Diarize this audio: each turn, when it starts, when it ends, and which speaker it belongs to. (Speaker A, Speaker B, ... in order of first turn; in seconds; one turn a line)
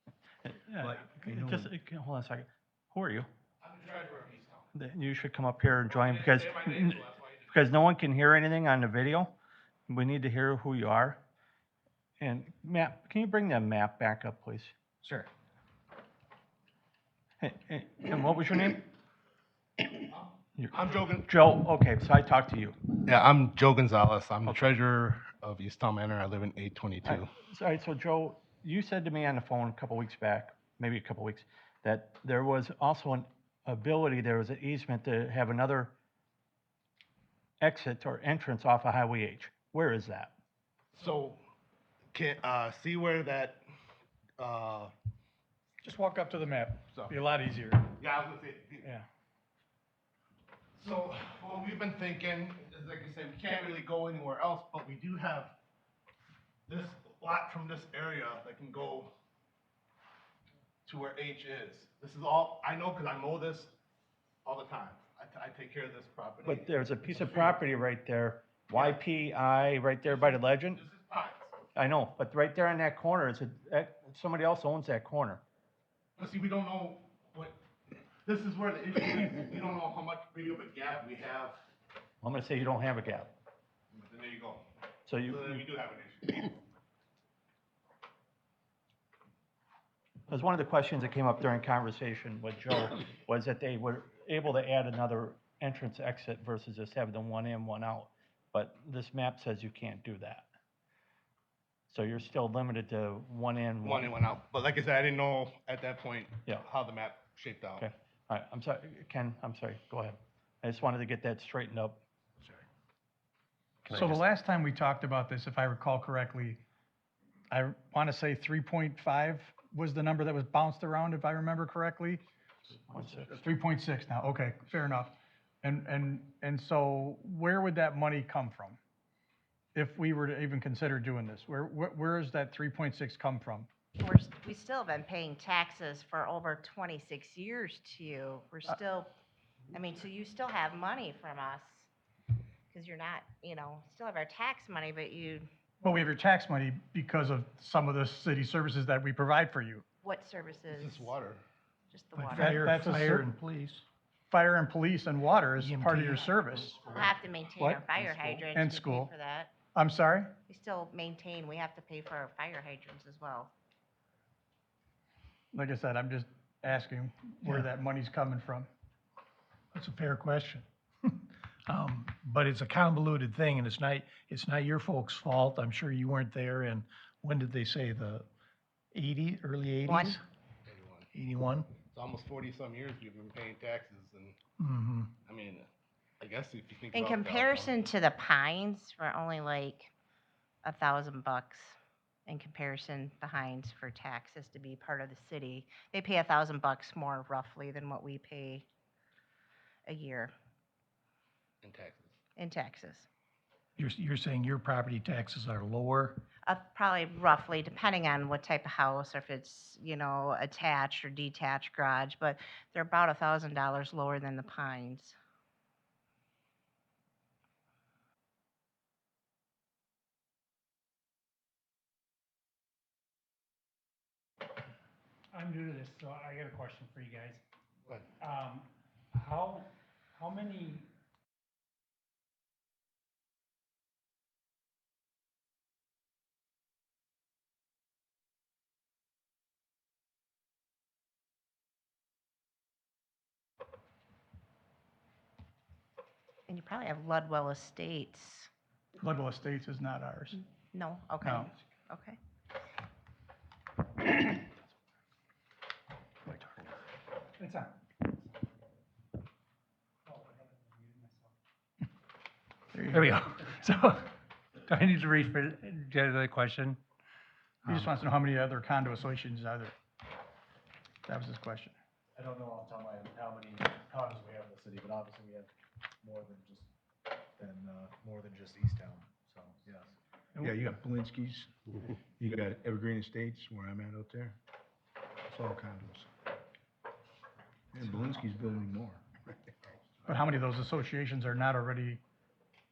Speaker A: 0.4-3.3
Speaker B: 0.8-1.7
Speaker C: 3.6-4.7
Speaker A: 4.7-9.3
Speaker C: 5.8-7.7
Speaker A: 9.9-11.2
Speaker A: 12.2-14.7
Speaker A: 17.4-18.9
Speaker C: 20.1-21.3
Speaker A: 20.6-22.8
Speaker C: 23.0-27.3
Speaker A: 27.0-35.9
Speaker A: 37.6-40.3
Speaker C: 40.9-41.4
Speaker C: 42.1-43.6
Speaker C: 44.4-44.9
Speaker D: 45.8-47.9
Speaker C: 48.0-48.9
Speaker C: 50.8-55.5
Speaker C: 56.7-59.1
Speaker C: 60.9-63.7
Speaker C: 64.4-67.6
Speaker A: 66.4-70.8
Speaker C: 68.7-69.0
Speaker C: 70.0-71.5
Speaker A: 71.7-75.4
Speaker C: 76.2-77.6
Speaker C: 78.2-81.6
Speaker A: 82.2-83.3
Speaker C: 83.9-84.7
Speaker A: 85.0-85.6
Speaker C: 85.2-86.5
Speaker A: 90.3-100.5
Speaker A: 101.9-104.1
Speaker C: 103.8-107.8
Speaker A: 107.8-112.0
Speaker D: 113.9-116.6
Speaker D: 117.5-122.2
Speaker A: 122.9-123.3
Speaker D: 123.3-128.8
Speaker D: 129.7-133.7
Speaker E: 134.0-139.1
Speaker E: 139.7-141.9
Speaker E: 142.7-145.5
Speaker D: 145.8-149.8
Speaker E: 150.0-151.1
Speaker C: 150.7-151.4
Speaker E: 151.9-152.6
Speaker F: 152.2-153.8
Speaker D: 152.3-153.3
Speaker D: 154.3-156.8
Speaker F: 155.6-156.3
Speaker E: 156.6-159.5
Speaker D: 157.6-157.9
Speaker D: 158.5-159.1
Speaker D: 159.7-160.3
Speaker E: 160.5-163.5
Speaker D: 165.5-168.7
Speaker F: 169.7-178.2
Speaker F: 178.9-180.2
Speaker E: 179.8-180.2
Speaker C: 180.7-181.1
Speaker F: 181.1-181.7
Speaker C: 181.8-184.4
Speaker F: 184.6-185.1
Speaker C: 185.3-185.7
Speaker C: 186.2-187.7
Speaker E: 186.9-189.9
Speaker E: 190.6-198.7
Speaker E: 199.9-200.3
Speaker C: 201.6-202.1
Speaker E: 202.3-203.1
Speaker F: 203.8-206.2
Speaker E: 206.4-215.2
Speaker G: 225.3-227.4
Speaker G: 228.2-230.9
Speaker E: 246.5-248.5
Speaker D: 249.0-250.3
Speaker E: 250.3-252.2
Speaker D: 251.2-251.5
Speaker G: 257.4-258.1
Speaker G: 260.1-261.3
Speaker D: 262.7-263.2
Speaker H: 262.9-264.1
Speaker H: 264.6-266.8
Speaker H: 267.6-267.9
Speaker D: 267.6-269.7
Speaker D: 271.1-271.7
Speaker I: 272.1-275.5
Speaker I: 276.0-276.6
Speaker I: 277.4-279.9
Speaker B: 280.4-284.4
Speaker B: 285.3-286.1
Speaker B: 287.7-289.0
Speaker D: 290.1-292.0